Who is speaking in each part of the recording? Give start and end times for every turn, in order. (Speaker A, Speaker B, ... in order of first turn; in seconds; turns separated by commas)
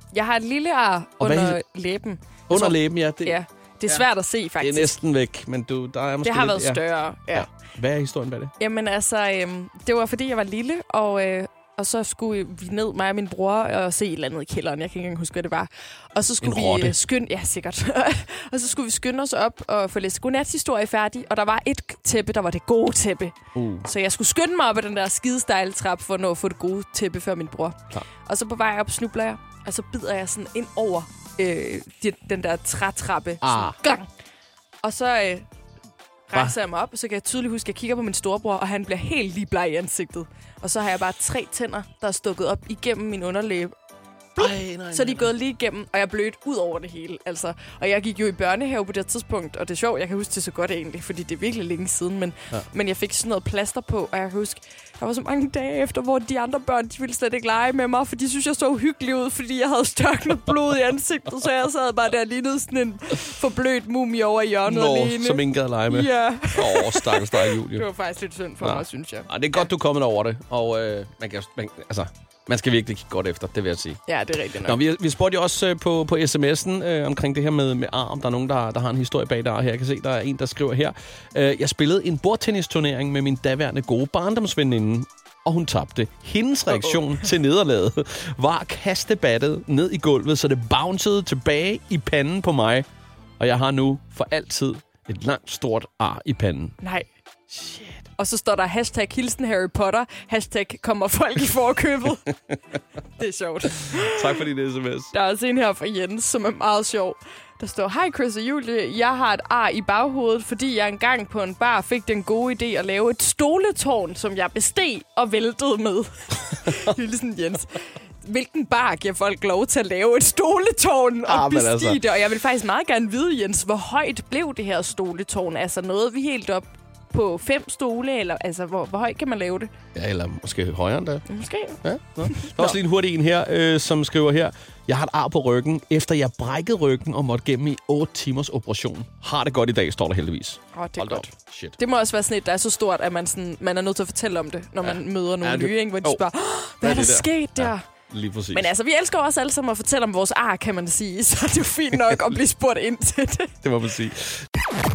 Speaker A: 0.1-4.9, Speaker B: 1.2-1.6, Speaker B: 2.5-3.4, Speaker B: 4.6-8.5, Speaker A: 6.2-7.5, Speaker A: 8.6-34.1, Speaker B: 16.4-16.9, Speaker B: 23.6-23.9, Speaker B: 33.4-33.8, Speaker A: 34.8-35.5, Speaker A: 36.3-43.7, Speaker A: 44.4-69.7, Speaker B: 44.4-45.3, Speaker B: 64.6-67.8, Speaker B: 68.6-74.0, Speaker A: 74.1-74.8, Speaker B: 74.6-92.8, Speaker B: 93.4-96.8, Speaker A: 96.8-97.1, Speaker B: 97.5-98.0, Speaker A: 98.2-102.3, Speaker A: 103.2-104.3, Speaker B: 103.9-105.1, Speaker A: 105.1-129.7, Speaker B: 121.3-122.0, Speaker B: 129.9-131.3, Speaker A: 131.3-132.8, Speaker B: 131.8-141.8, Speaker A: 140.8-147.8, Speaker B: 144.8-146.2, Speaker B: 146.8-148.7, Speaker A: 148.5-153.5, Speaker B: 152.0-152.3, Speaker B: 153.6-154.4